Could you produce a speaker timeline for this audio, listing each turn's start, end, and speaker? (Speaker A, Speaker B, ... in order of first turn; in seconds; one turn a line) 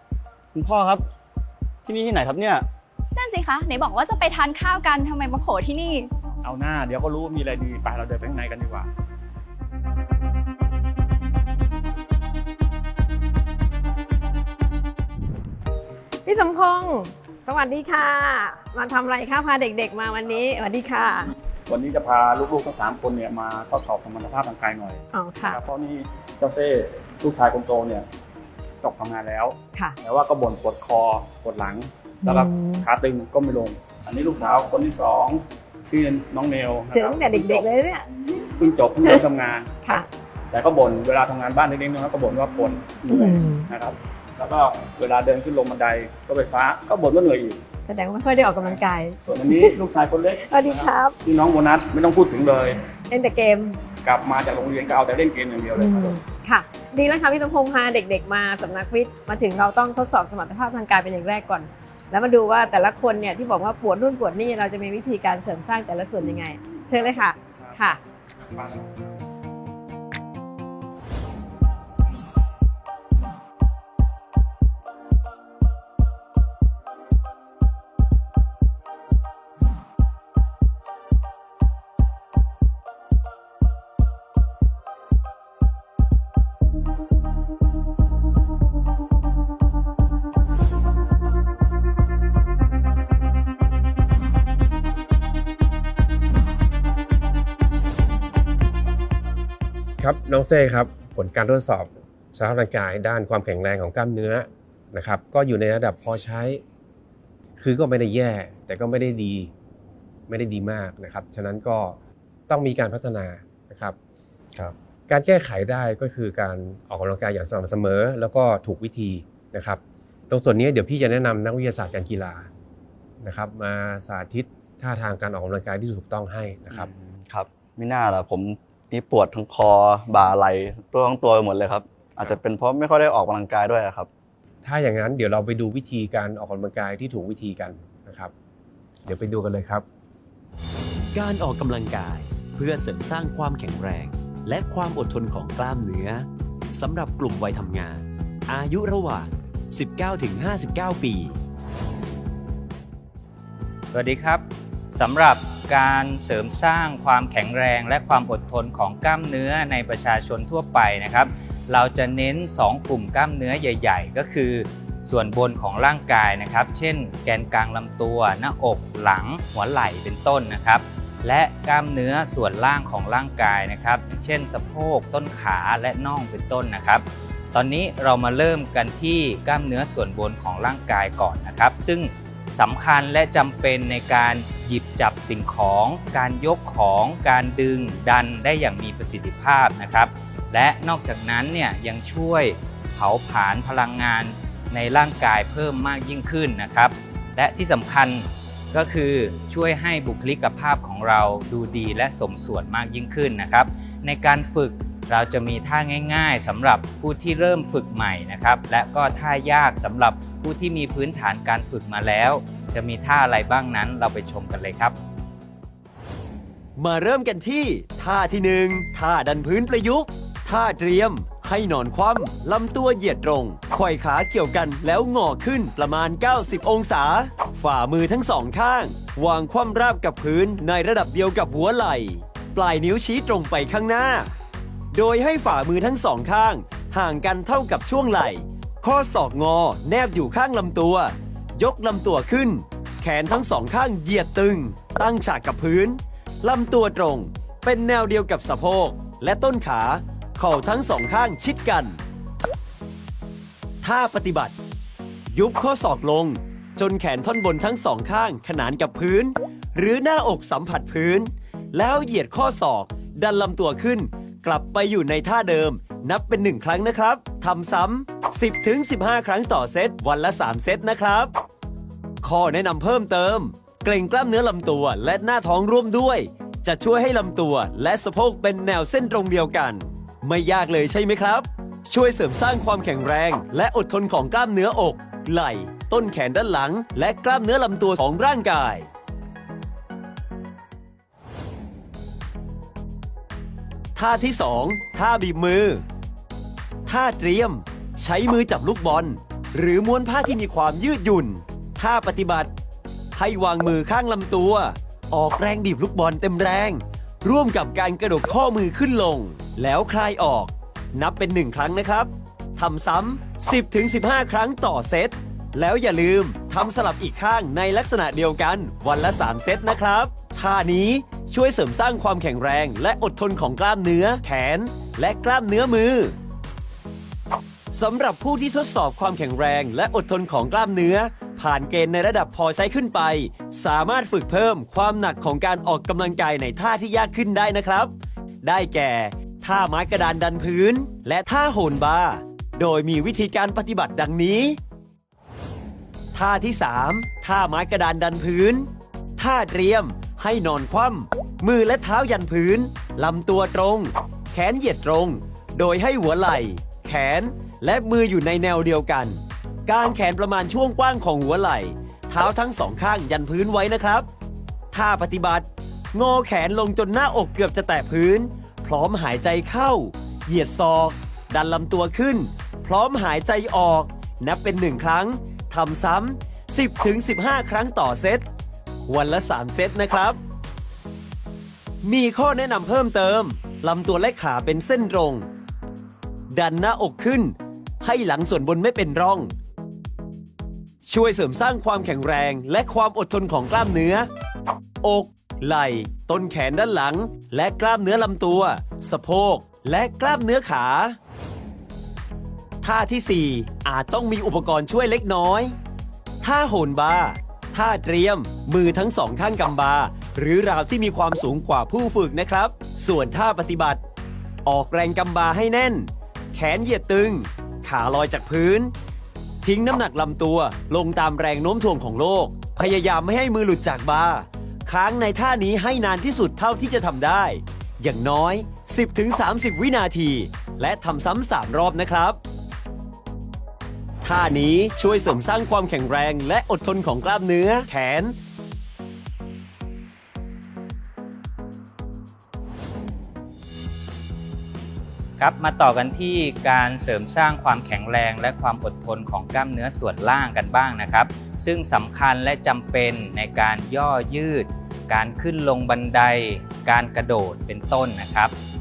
Speaker A: 0.5-1.1
Speaker A: 1.9-2.7
Speaker B: 3.1-6.1
Speaker C: 6.4-8.9
Speaker D: 16.2-21.3
Speaker C: 21.7-28.1
Speaker D: 25.1-25.6
Speaker C: 28.8-37.7
Speaker D: 29.7-30.0
Speaker D: 32.2-32.9
Speaker D: 36.9-38.1
Speaker C: 38.6-40.0
Speaker D: 39.8-40.1
Speaker C: 40.5-47.6
Speaker D: 43.0-43.7
Speaker D: 47.9-49.8
Speaker C: 48.6-52.8
Speaker D: 50.5-51.2
Speaker D: 53.1-53.9
Speaker C: 53.9-56.2
Speaker D: 55.8-68.0
Speaker C: 67.1-67.8
Speaker E: 100.0-106.6
Speaker E: 107.6-109.5
Speaker E: 110.3-112.0
Speaker E: 112.5-114.0
Speaker E: 114.5-122.5
Speaker E: 123.2-126.9
Speaker A: 126.7-134.1
Speaker E: 134.6-138.3
Speaker E: 139.0-139.8
Speaker F: 141.1-151.4
Speaker G: 153.9-214.9
Speaker F: 216.8-234.3
Speaker F: 234.9-252.0
Speaker F: 253.8-254.5
Speaker F: 255.3-271.3
Speaker F: 272.2-288.9
Speaker F: 293.9-295.8
Speaker F: 296.9-302.5
Speaker F: 303.1-326.1
Speaker F: 327.7-337.9
Speaker F: 338.4-344.6
Speaker F: 346.1-364.1
Speaker F: 364.7-378.2
Speaker F: 378.9-380.2
Speaker F: 381.8-385.2
Speaker F: 386.3-389.3
Speaker F: 390.9-394.1
Speaker F: 394.8-401.0
Speaker F: 402.6-405.5
Speaker F: 406.2-413.8
Speaker F: 414.4-418.7
Speaker F: 419.4-432.2
Speaker F: 434.0-438.1
Speaker G: 445.2-458.3